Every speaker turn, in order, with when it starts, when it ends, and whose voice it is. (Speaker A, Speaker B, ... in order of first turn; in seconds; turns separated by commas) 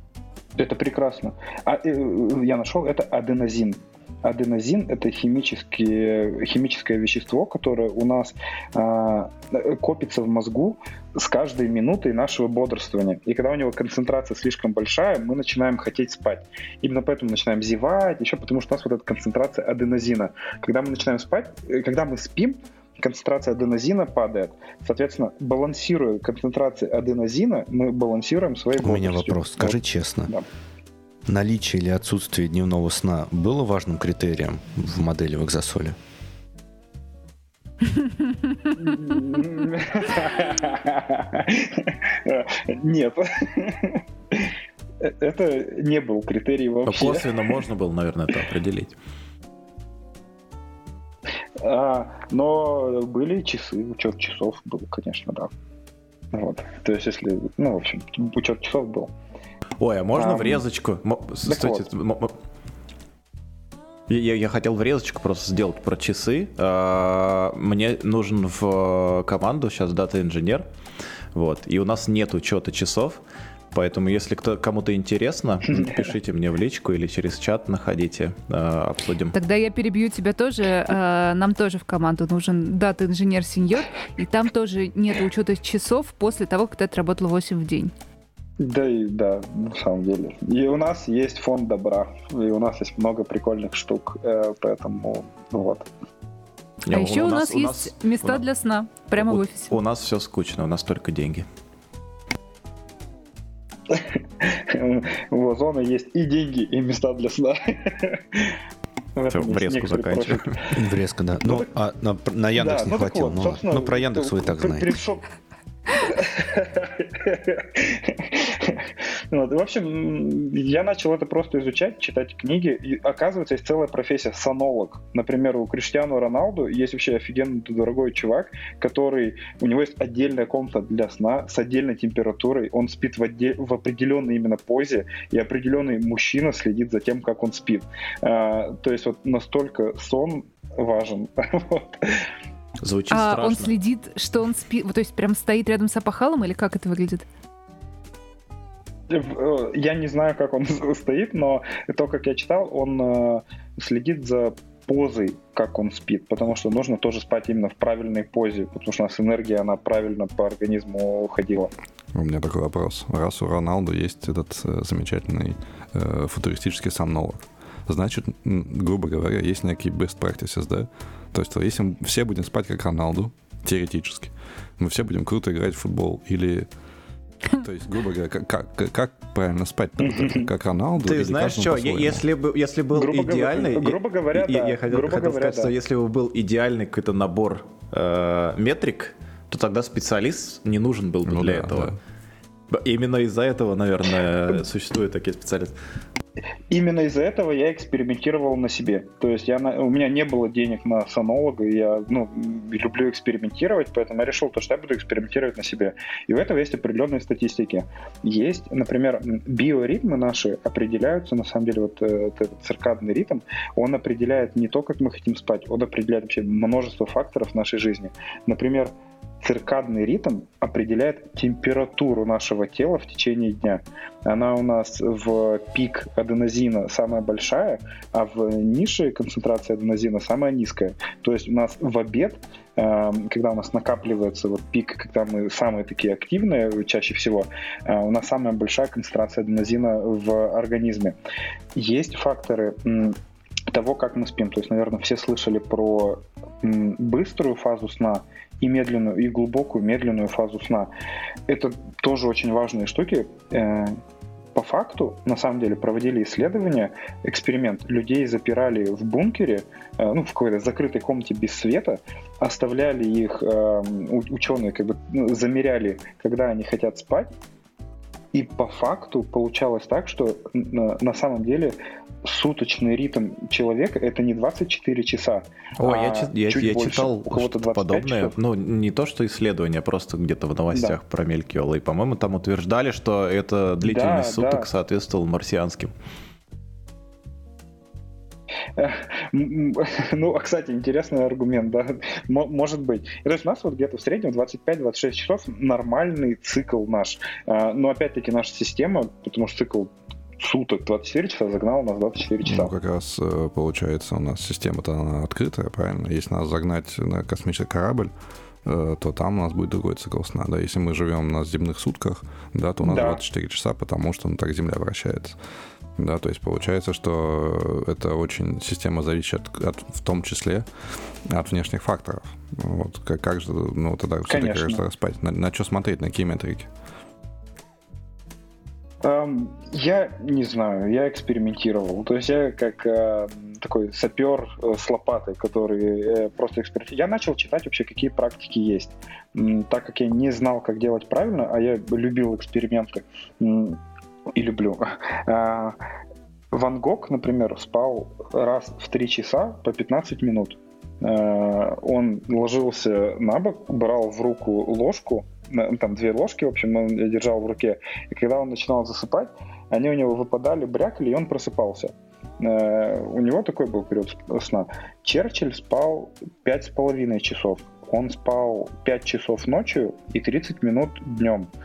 Speaker A: 0.6-30.5, Speaker B: 28.8-30.3, Speaker B: 31.3-36.0, Speaker A: 38.8-47.6, Speaker C: 46.9-49.0, Speaker A: 51.6-55.5, Speaker A: 56.3-59.1, Speaker C: 59.8-62.3, Speaker A: 60.1-60.6, Speaker A: 61.5-61.9, Speaker C: 64.1-70.7, Speaker C: 71.3-73.2, Speaker C: 73.7-79.3, Speaker D: 79.3-87.9, Speaker A: 88.6-95.9, Speaker C: 96.9-98.4, Speaker D: 96.9-99.8, Speaker C: 99.2-101.5, Speaker A: 103.9-108.6, Speaker A: 109.1-110.8, Speaker C: 109.3-110.6, Speaker B: 110.8-115.0, Speaker A: 111.4-111.7, Speaker A: 112.6-115.2, Speaker A: 116.0-142.2, Speaker C: 142.8-143.7, Speaker D: 143.1-147.2, Speaker A: 149.1-161.7, Speaker E: 162.1-176.7, Speaker E: 177.6-182.2, Speaker A: 180.0-180.5, Speaker C: 181.0-192.0, Speaker A: 182.9-185.7, Speaker E: 191.3-191.9, Speaker C: 192.7-195.8, Speaker A: 196.7-241.1, Speaker A: 241.8-243.2, Speaker A: 243.7-250.9, Speaker A: 251.5-254.0, Speaker A: 254.5-267.3, Speaker A: 268.3-278.4, Speaker C: 275.8-285.9, Speaker A: 283.8-284.7, Speaker A: 288.8-302.7, Speaker E: 302.4-308.1, Speaker E: 308.6-315.4, Speaker A: 312.8-313.2, Speaker E: 316.0-320.6, Speaker E: 321.3-326.7, Speaker A: 324.3-324.8, Speaker A: 329.0-343.8, Speaker A: 344.3-345.8, Speaker A: 346.5-371.5